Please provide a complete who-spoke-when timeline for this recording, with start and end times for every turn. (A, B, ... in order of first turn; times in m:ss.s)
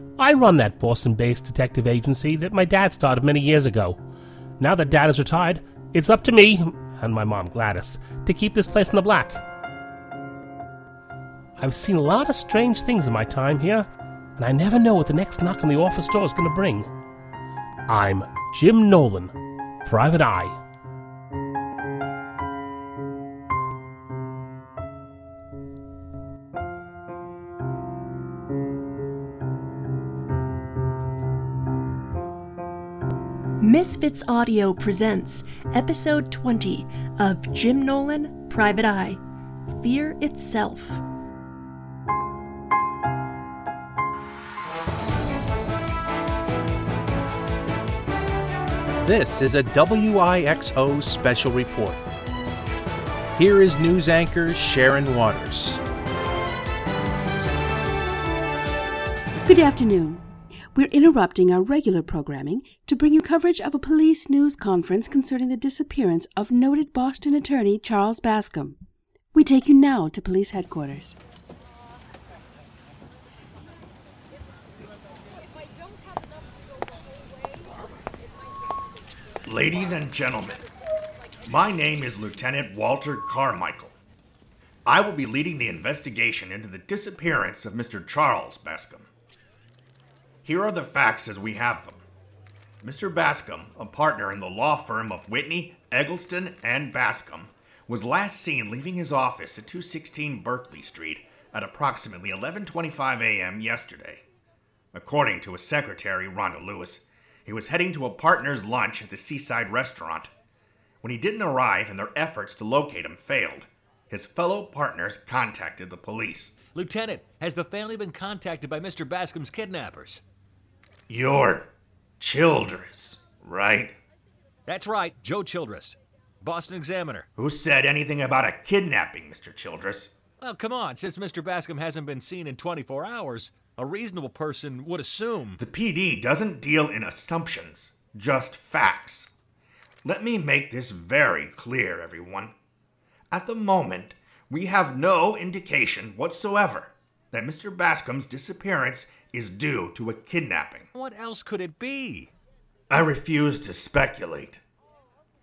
0:00.2-0:04.0 A
0:04.6-0:09.4 A
0:11.6-0:16.9 A
0:17.9-0:19.3 A
0:19.8-0:20.6 A
0:33.6-0:41.0 B
0:49.0-0:52.0 C
0:53.4-0:55.8 C
0:59.4-1:08.8 D
1:09.3-1:11.2 D
1:19.5-1:20.6 E
1:21.5-1:24.0 E
1:24.9-1:29.1 E
1:30.4-1:32.0 E
1:32.8-1:44.2 E
1:44.9-1:50.3 E
1:51.0-1:56.6 E
1:56.7-2:00.2 F
2:01.1-2:04.0 E
2:04.7-2:07.3 F
2:07.4-2:10.1 E
2:10.4-2:15.6 F
2:15.6-2:19.3 E
2:20.0-2:22.5 E
2:23.3-2:30.9 E
2:30.9-2:32.3 F
2:32.9-2:34.6 E